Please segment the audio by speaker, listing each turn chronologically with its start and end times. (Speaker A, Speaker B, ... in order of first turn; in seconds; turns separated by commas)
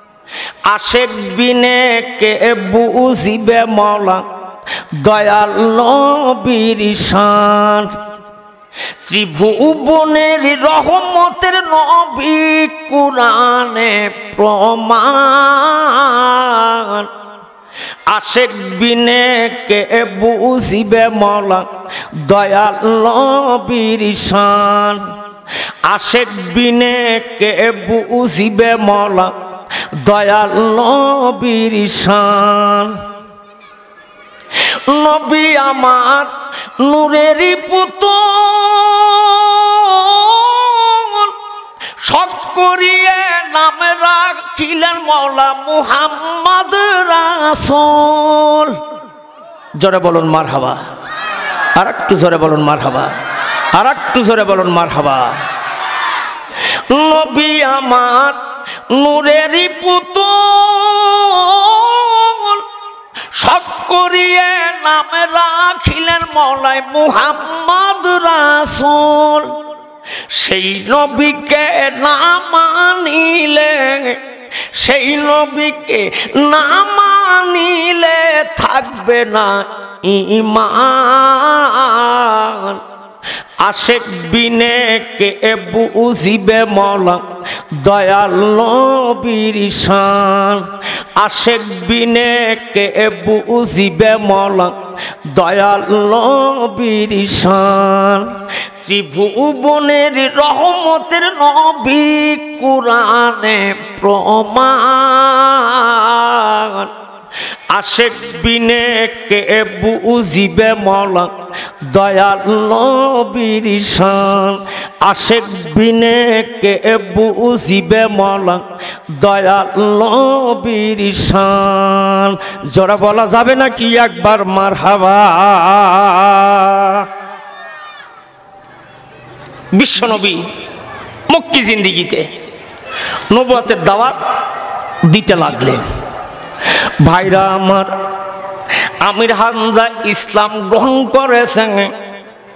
Speaker A: 0.7-4.2, Speaker A: 5.0-7.9, Speaker A: 9.1-17.1, Speaker A: 18.1-21.7, Speaker A: 22.2-25.1, Speaker A: 25.9-29.3, Speaker A: 30.0-33.0, Speaker A: 34.9-41.4, Speaker A: 42.0-48.8, Speaker A: 49.8-50.8, Speaker A: 51.8-53.1, Speaker A: 53.8-55.4, Speaker A: 56.9-58.4, Speaker A: 58.9-62.7, Speaker A: 63.4-69.6, Speaker A: 70.3-74.2, Speaker A: 74.8-82.8, Speaker A: 83.6-94.8, Speaker A: 95.3-106.9, Speaker A: 107.7-111.3, Speaker A: 111.9-127.1, Speaker A: 129.8-130.4, Speaker A: 131.3-132.3, Speaker A: 133.3-134.2, Speaker A: 135.1-135.8, Speaker A: 137.0-137.9, Speaker A: 139.0-141.9